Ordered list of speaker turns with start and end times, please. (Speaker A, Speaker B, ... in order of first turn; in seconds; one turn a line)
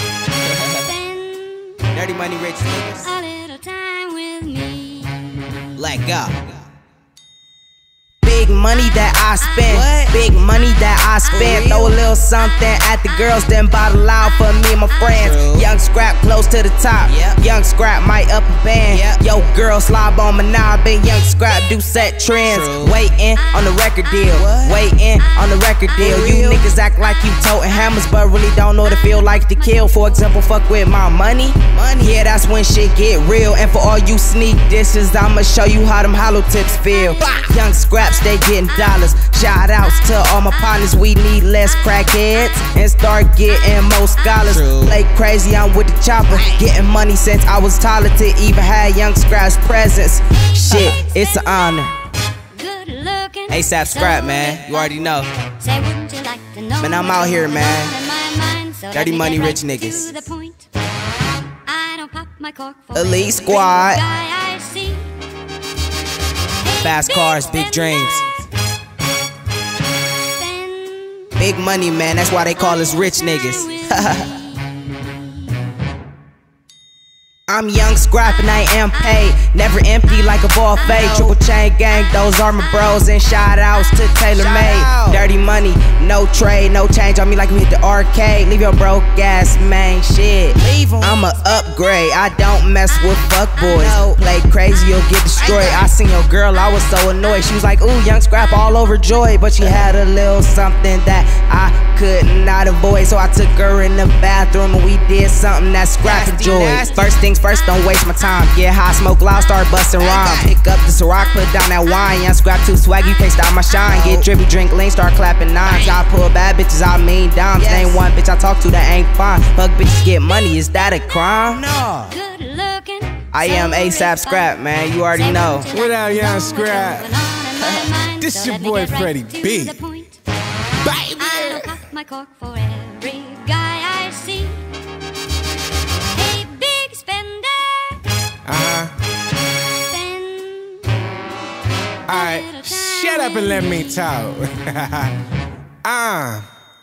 Speaker A: 0.6-1.9
Speaker B: 1.9-3.0
Speaker A: 3.0-5.4
Speaker C: 5.8-6.3
Speaker B: 8.2-51.9
Speaker C: 9.7-10.1
Speaker C: 11.3-11.9
Speaker C: 15.1-15.7
Speaker C: 17.1-17.4
Speaker C: 18.9-19.2
Speaker C: 22.4-22.9
Speaker C: 24.3-24.8
Speaker C: 26.0-26.6
Speaker A: 29.1-30.4
Speaker C: 31.7-32.0
Speaker A: 36.9-37.3
Speaker C: 37.2-37.5
Speaker C: 44.5-45.0
Speaker C: 46.3-46.6
Speaker C: 50.7-51.0
Speaker A: 52.5-60.7
Speaker B: 53.5-55.3
Speaker B: 56.8-57.9
Speaker B: 58.9-60.2
Speaker A: 61.6-65.2
Speaker B: 62.9-64.0
Speaker A: 66.6-68.3
Speaker B: 66.8-68.2
Speaker A: 70.2-71.5
Speaker B: 71.4-74.3
Speaker A: 72.3-74.9
Speaker B: 77.5-121.7
Speaker C: 80.8-81.3
Speaker C: 84.3-85.2
Speaker C: 90.6-91.2
Speaker C: 93.7-94.1
Speaker C: 95.3-95.9
Speaker C: 106.0-107.2
Speaker C: 110.0-110.5
Speaker C: 113.8-114.3
Speaker C: 115.6-116.0
Speaker C: 117.6-118.0
Speaker C: 121.6-122.1
Speaker A: 122.1-124.5
Speaker B: 123.3-125.7
Speaker A: 125.1-130.2
Speaker D: 125.7-127.1
Speaker D: 127.6-129.8
Speaker D: 130.8-131.7
Speaker A: 131.2-134.7
Speaker A: 136.1-138.1
Speaker D: 138.4-138.9
Speaker A: 139.7-141.2
Speaker A: 142.1-143.9
Speaker D: 142.1-145.1
Speaker D: 145.8-146.4